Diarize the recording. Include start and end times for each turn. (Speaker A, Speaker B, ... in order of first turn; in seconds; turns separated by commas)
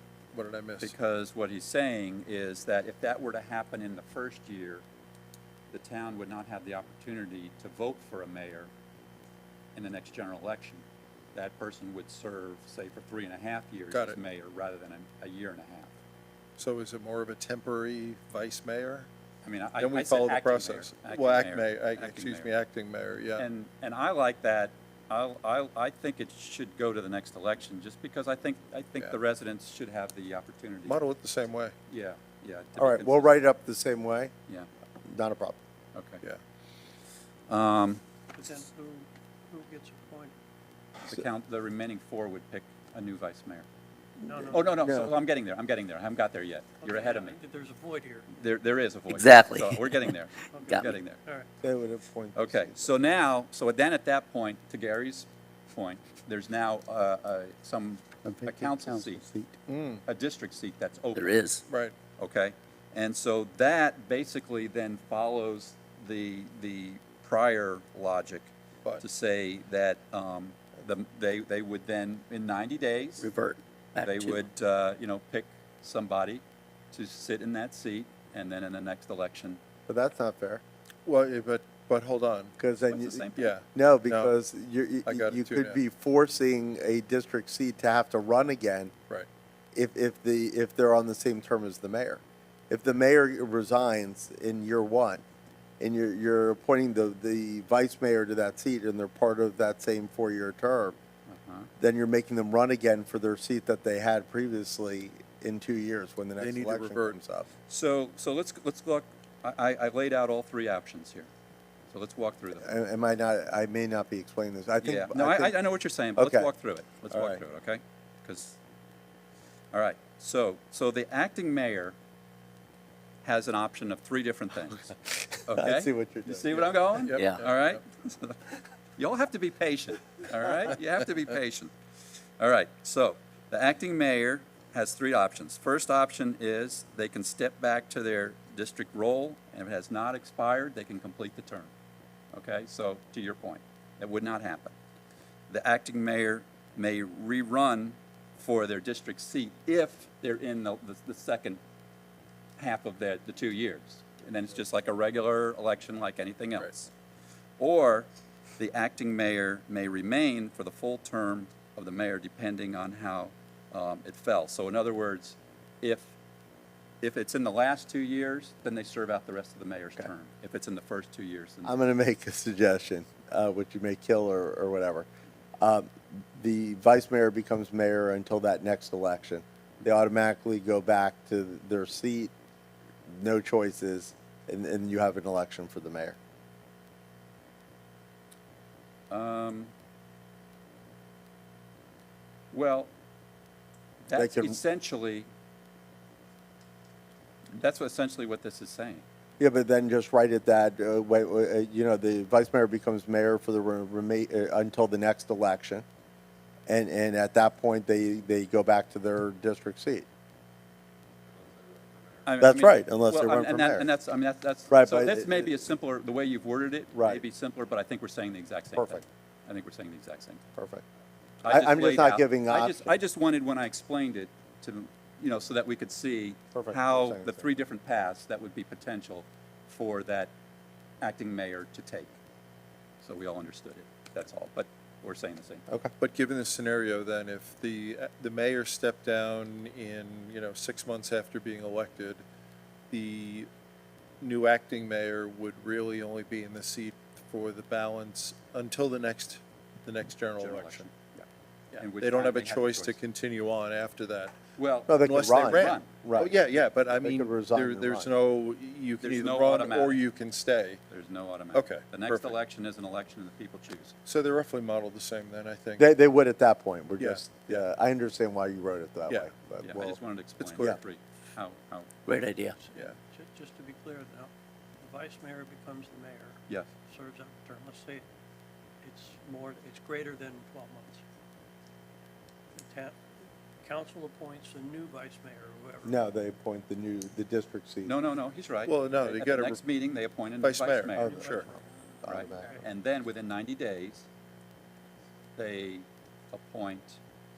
Speaker A: 0.3-0.9, Speaker B: 0.8-4.8, Speaker B: 5.7-8.7, Speaker B: 9.7-15.9, Speaker A: 13.9-14.2, Speaker A: 16.6-19.1, Speaker B: 19.4-22.5, Speaker A: 19.8-23.4, Speaker B: 23.4-31.0, Speaker A: 30.9-31.7, Speaker B: 31.9-33.3, Speaker C: 32.8-34.3, Speaker C: 35.0-35.6, Speaker B: 35.9-36.2, Speaker B: 37.5-38.0, Speaker D: 38.3-40.3, Speaker B: 41.0-43.7, Speaker D: 44.2-44.9, Speaker C: 44.2-45.1, Speaker B: 44.5-47.4, Speaker D: 46.8-48.3, Speaker B: 48.3-51.2, Speaker E: 49.1-50.0, Speaker D: 50.5-51.5, Speaker C: 51.6-52.9, Speaker B: 52.3-59.2, Speaker C: 58.2-59.6, Speaker A: 59.7-60.0, Speaker B: 60.0-61.4, Speaker E: 61.1-61.6, Speaker A: 61.7-61.9, Speaker B: 62.2-73.3, Speaker C: 73.2-73.6, Speaker E: 73.9-74.3, Speaker B: 74.0-79.6, Speaker C: 79.9-80.6, Speaker A: 81.0-82.5, Speaker C: 82.6-88.9, Speaker B: 82.9-83.5, Speaker A: 83.3-84.3, Speaker A: 85.0-85.8, Speaker C: 89.7-95.2, Speaker C: 95.8-101.0, Speaker B: 101.3-101.7, Speaker C: 101.8-107.5, Speaker A: 106.4-107.2, Speaker B: 107.7-111.3, Speaker B: 111.9-112.7, Speaker C: 112.6-115.6, Speaker B: 114.8-118.6, Speaker C: 116.2-116.5, Speaker C: 117.1-117.4, Speaker B: 119.7-122.0, Speaker B: 123.2-124.9, Speaker B: 125.5-131.7, Speaker C: 125.5-127.0, Speaker A: 127.0-127.7, Speaker B: 132.4-141.7, Speaker B: 142.3-144.7, Speaker B: 145.5-151.6, Speaker B: 152.6-156.9, Speaker B: 157.6-158.1, Speaker B: 158.6-166.1, Speaker B: 167.0-171.8, Speaker C: 171.6-175.1, Speaker C: 175.6-182.3, Speaker C: 183.1-186.2, Speaker B: 189.1-189.7, Speaker B: 192.5-192.9, Speaker B: 194.1-195.3, Speaker C: 194.1-194.6, Speaker B: 197.5-199.0, Speaker C: 199.4-205.8, Speaker C: 206.7-210.1, Speaker B: 212.2-220.4, Speaker C: 212.4-213.9, Speaker C: 214.7-215.5, Speaker C: 216.9-217.2, Speaker C: 218.7-219.0, Speaker C: 220.6-220.8, Speaker B: 221.4-230.3, Speaker C: 221.4-222.9, Speaker C: 226.5-227.5, Speaker B: 231.0-232.1, Speaker B: 233.0-235.7, Speaker A: 236.0-242.2, Speaker A: 242.9-243.5, Speaker A: 244.2-250.9, Speaker B: 250.4-251.3, Speaker A: 251.7-254.4, Speaker B: 251.8-253.0, Speaker B: 254.6-255.9, Speaker C: 254.9-256.3, Speaker A: 254.9-260.8, Speaker C: 256.9-258.1, Speaker B: 259.0-260.0, Speaker B: 260.9-263.9, Speaker A: 261.5-262.4, Speaker A: 264.0-265.9, Speaker C: 265.8-270.0, Speaker A: 267.0-267.6, Speaker B: 269.6-271.9, Speaker A: 270.4-270.8, Speaker E: 272.1-272.5, Speaker D: 272.6-278.1, Speaker D: 278.8-281.0, Speaker D: 282.5-283.0, Speaker D: 283.6-285.9, Speaker C: 285.8-287.9, Speaker B: 287.8-291.1, Speaker A: 288.6-289.6, Speaker A: 290.4-291.5, Speaker C: 290.9-291.5, Speaker D: 291.0-291.6, Speaker C: 292.0-292.6, Speaker B: 292.0-294.1, Speaker B: 295.4-297.0